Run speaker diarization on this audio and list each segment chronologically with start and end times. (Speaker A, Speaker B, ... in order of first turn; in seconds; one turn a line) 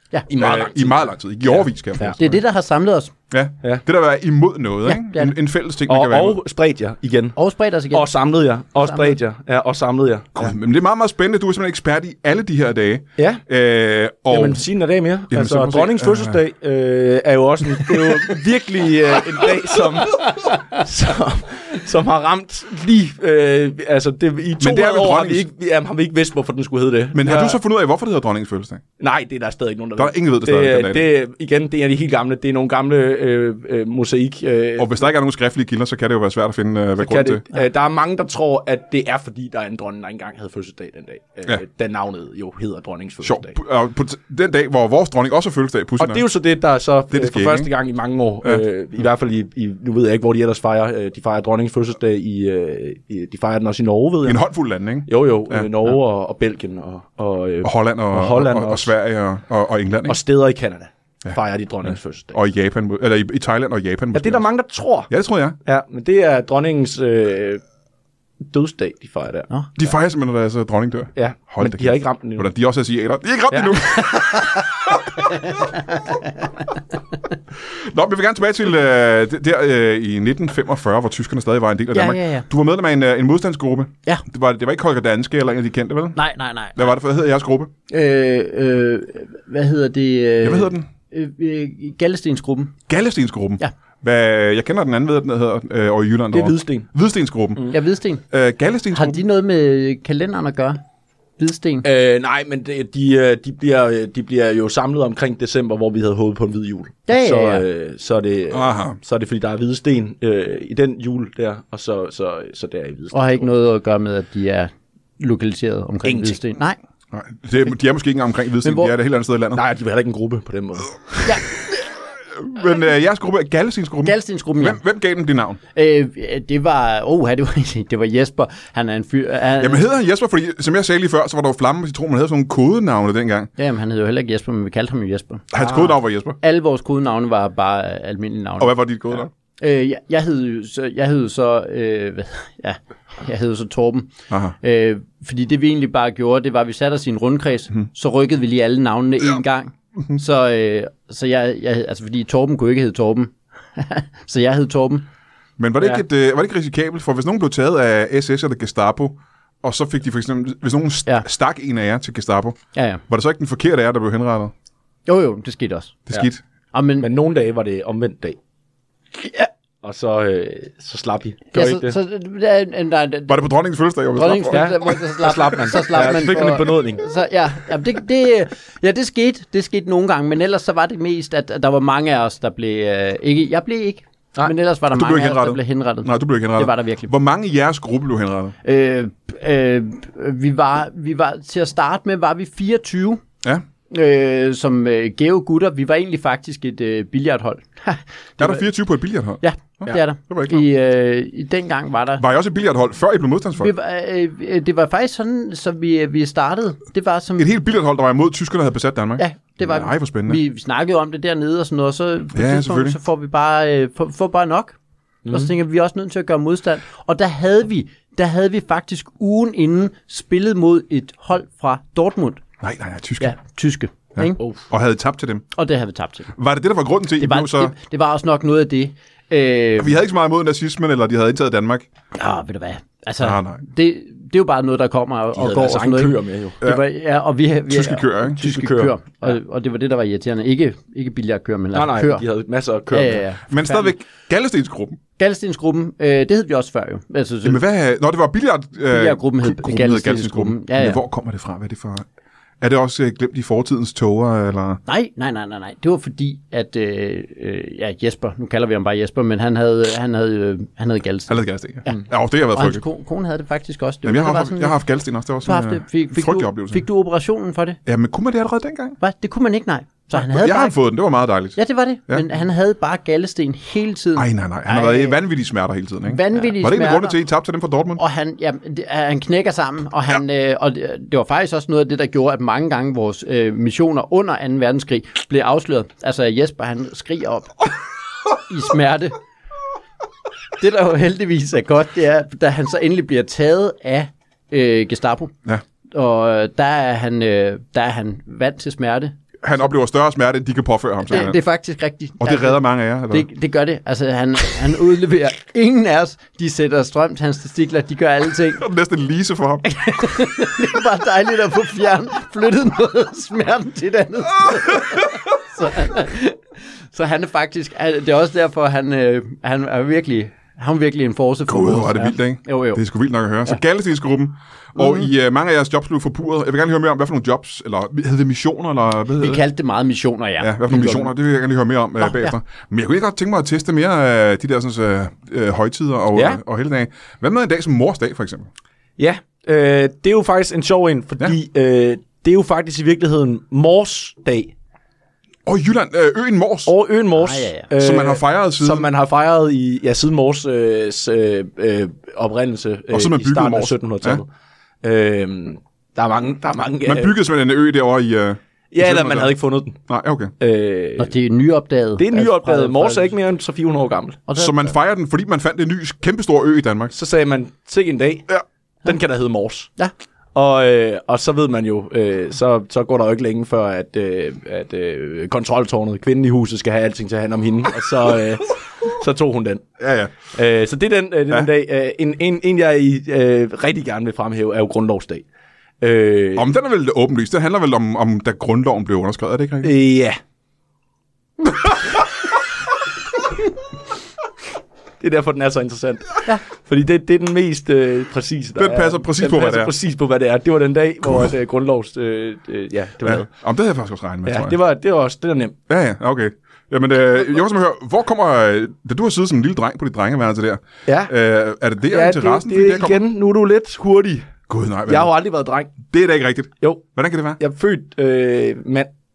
Speaker A: 0.3-2.2
Speaker B: 0.4-2.4
Speaker C: 2.2-3.1
Speaker B: 3.3-6.4
Speaker C: 4.9-5.3
Speaker A: 5.9-7.4
Speaker C: 7.4-8.1
Speaker A: 7.9-10.5
Speaker C: 8.8-9.2
Speaker B: 10.4-14.7
Speaker A: 13.2-13.4
Speaker A: 14.3-27.6
Speaker B: 15.3-16.4
Speaker B: 24.6-25.5
Speaker B: 27.1-28.8
Speaker A: 29.0-34.9
Speaker B: 30.0-31.1
Speaker B: 34.8-37.5
Speaker A: 37.0-43.5
Speaker B: 43.2-46.3
Speaker A: 46.0-54.5
Speaker B: 47.1-47.7
Speaker B: 54.2-55.7
Speaker A: 55.1-58.9
Speaker B: 57.6-60.2
Speaker A: 60.1-62.4
Speaker B: 61.2-64.5
Speaker A: 64.1-65.1
Speaker B: 65.1-65.6
Speaker A: 65.7-67.6
Speaker A: 68.4-69.5
Speaker B: 69.8-75.6
Speaker A: 71.2-72.5
Speaker C: 74.0-74.6
Speaker C: 75.5-76.5
Speaker B: 77.7-86.2
Speaker C: 81.9-82.5
Speaker C: 86.2-86.9
Speaker B: 86.8-87.7
Speaker C: 87.9-92.8
Speaker B: 90.4-90.9
Speaker B: 92.9-97.7
Speaker A: 96.3-96.9
Speaker C: 97.7-98.2
Speaker B: 98.3-99.2
Speaker C: 99.0-100.8
Speaker C: 101.4-101.9
Speaker A: 101.8-113.5
Speaker C: 107.1-107.7
Speaker B: 108.5-109.0
Speaker C: 113.1-116.8
Speaker A: 116.0-116.4
Speaker B: 117.1-119.6
Speaker C: 118.6-118.9
Speaker A: 119.5-121.3
Speaker B: 122.4-125.6
Speaker C: 124.0-124.8
Speaker C: 125.7-129.9
Speaker B: 129.6-133.5
Speaker C: 133.6-138.8
Speaker B: 135.5-136.4
Speaker B: 138.6-139.3
Speaker C: 139.6-155.1
Speaker B: 144.3-144.6
Speaker B: 155.6-164.5
Speaker C: 162.8-163.0
Speaker C: 165.1-166.0
Speaker B: 166.1-166.4
Speaker C: 166.7-167.1
Speaker A: 167.0-168.4
Speaker C: 169.2-169.5
Speaker A: 169.8-172.0
Speaker C: 171.5-173.5
Speaker B: 173.3-174.7
Speaker C: 174.2-187.1
Speaker A: 174.5-177.1
Speaker B: 184.9-188.6
Speaker C: 188.6-193.2
Speaker C: 193.9-198.7
Speaker B: 198.4-200.6
Speaker C: 199.4-202.2
Speaker B: 202.2-203.7
Speaker C: 203.6-207.5
Speaker B: 207.4-210.4
Speaker C: 209.2-214.8
Speaker B: 212.3-213.0
Speaker A: 215.3-215.5
Speaker C: 215.3-222.4
Speaker B: 222.6-223.3
Speaker C: 223.2-224.4
Speaker B: 224.2-225.4
Speaker C: 225.6-226.3
Speaker B: 226.4-227.7
Speaker C: 227.2-230.0
Speaker B: 229.8-231.9
Speaker C: 232.2-242.2
Speaker B: 233.2-233.6
Speaker A: 235.3-236.6
Speaker B: 237.7-238.4
Speaker A: 238.4-239.3
Speaker A: 241.7-243.2
Speaker C: 242.9-243.9
Speaker B: 243.5-245.0
Speaker C: 245.2-247.6
Speaker B: 247.4-252.1
Speaker C: 248.9-251.0
Speaker B: 252.6-254.8
Speaker C: 254.9-264.8
Speaker B: 261.3-262.8
Speaker B: 264.1-266.8
Speaker C: 265.5-267.8
Speaker B: 267.9-269.0
Speaker C: 269.0-270.8
Speaker B: 270.1-272.3
Speaker C: 271.6-275.2
Speaker B: 274.2-278.0
Speaker C: 276.1-277.2
Speaker C: 278.0-287.7
Speaker C: 288.4-289.2
Speaker C: 290.6-295.4
Speaker C: 295.9-299.1
Speaker B: 299.4-301.4
Speaker C: 301.1-308.6
Speaker B: 302.2-303.3
Speaker B: 308.6-309.7
Speaker C: 309.6-316.4
Speaker B: 314.4-315.1
Speaker C: 316.9-322.8
Speaker B: 321.5-329.4
Speaker C: 324.8-325.1
Speaker C: 329.2-331.1
Speaker B: 330.4-338.5
Speaker C: 332.0-332.4
Speaker A: 336.1-336.4
Speaker A: 339.0-344.5
Speaker B: 345.5-346.7
Speaker A: 346.7-354.3
Speaker C: 347.2-347.7
Speaker B: 347.8-348.9
Speaker B: 352.9-354.2
Speaker A: 354.8-357.2
Speaker B: 356.9-360.3
Speaker A: 358.7-359.8
Speaker A: 360.4-361.1
Speaker C: 361.0-363.1
Speaker A: 362.0-364.2
Speaker C: 364.3-364.7
Speaker B: 364.4-366.9
Speaker A: 366.9-368.3
Speaker A: 368.9-369.7
Speaker A: 370.4-379.6
Speaker B: 379.8-380.2
Speaker A: 380.3-385.2
Speaker A: 385.8-386.5
Speaker B: 386.4-389.7
Speaker A: 389.6-390.2
Speaker A: 395.0-403.3
Speaker B: 398.6-399.7
Speaker B: 403.0-404.6
Speaker A: 404.3-405.6
Speaker B: 405.7-413.0
Speaker A: 410.9-411.1
Speaker A: 411.9-414.3
Speaker B: 414.5-415.1
Speaker A: 414.9-415.7
Speaker B: 415.8-417.4
Speaker A: 417.4-418.9